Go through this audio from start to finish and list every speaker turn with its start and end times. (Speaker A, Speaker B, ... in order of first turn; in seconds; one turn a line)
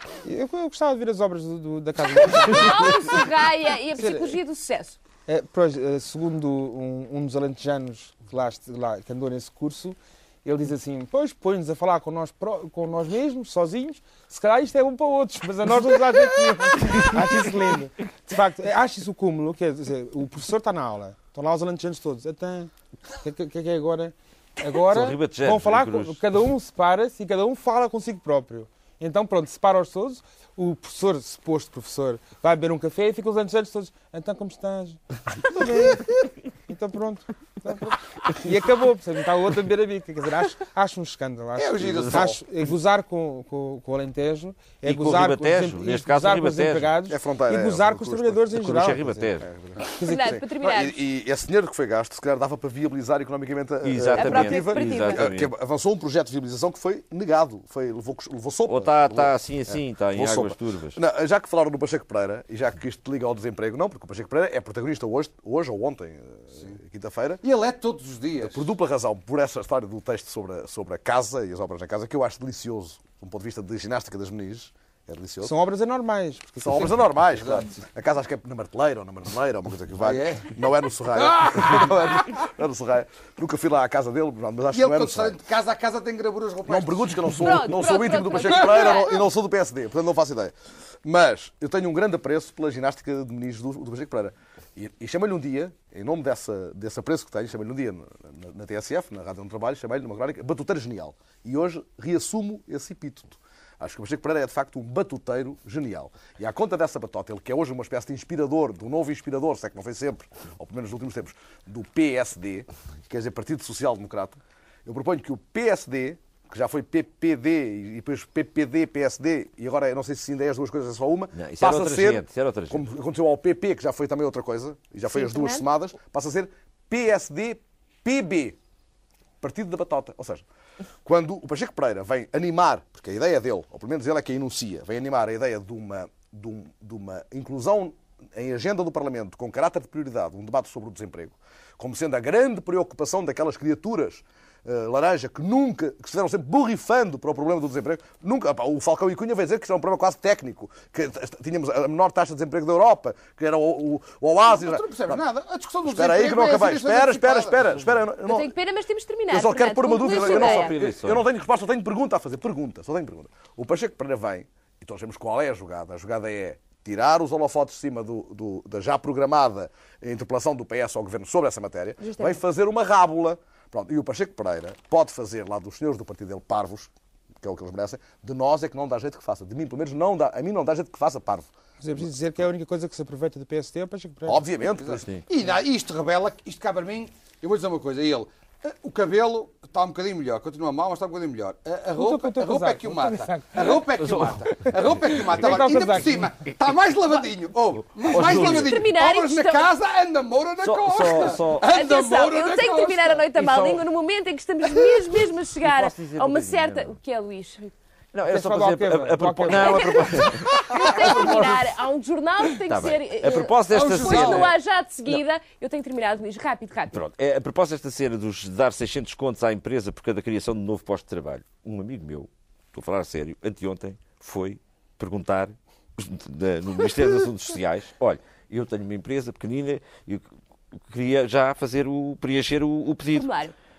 Speaker A: 0.2-3.3
Speaker B: 2.3-5.0
Speaker A: 4.0-4.4
Speaker A: 5.3-49.3
Speaker C: 24.9-26.2
Speaker D: 41.5-42.4
Speaker C: 44.8-46.9
Speaker E: 47.1-48.6
Speaker C: 48.6-49.5
Speaker E: 49.4-67.4
Speaker A: 50.0-50.4
Speaker B: 50.0-51.0
Speaker C: 53.8-55.5
Speaker B: 54.1-55.2
Speaker C: 58.7-61.0
Speaker D: 67.4-68.7
Speaker E: 68.4-75.5
Speaker A: 75.4-77.0
Speaker E: 76.6-85.3
Speaker D: 77.2-77.7
Speaker D: 80.0-80.5
Speaker D: 81.2-81.9
Speaker D: 84.7-87.5
Speaker E: 86.7-128.6
Speaker B: 87.4-89.2
Speaker C: 121.3-122.9
Speaker B: 125.1-125.6
Speaker E: 129.4-130.4
Speaker E: 131.0-155.2
Speaker D: 154.4-157.8
Speaker E: 155.8-158.5
Speaker B: 158.2-160.7
Speaker E: 159.3-181.5
Speaker C: 160.1-161.2
Speaker B: 172.0-172.4
Speaker A: 181.8-184.5
Speaker E: 184.2-185.1
Speaker D: 184.8-203.3
Speaker A: 191.9-193.9
Speaker C: 194.0-194.4
Speaker A: 194.9-196.3
Speaker C: 198.0-198.7
Speaker B: 198.2-199.7
Speaker C: 200.6-201.7
Speaker B: 201.6-207.7
Speaker C: 203.4-203.8
Speaker C: 205.6-207.0
Speaker C: 208.1-211.5
Speaker A: 208.3-210.2
Speaker B: 209.6-217.0
Speaker D: 210.5-210.8
Speaker C: 212.7-214.5
Speaker D: 213.7-214.5
Speaker C: 216.9-230.2
Speaker C: 230.9-233.3
Speaker B: 233.1-233.5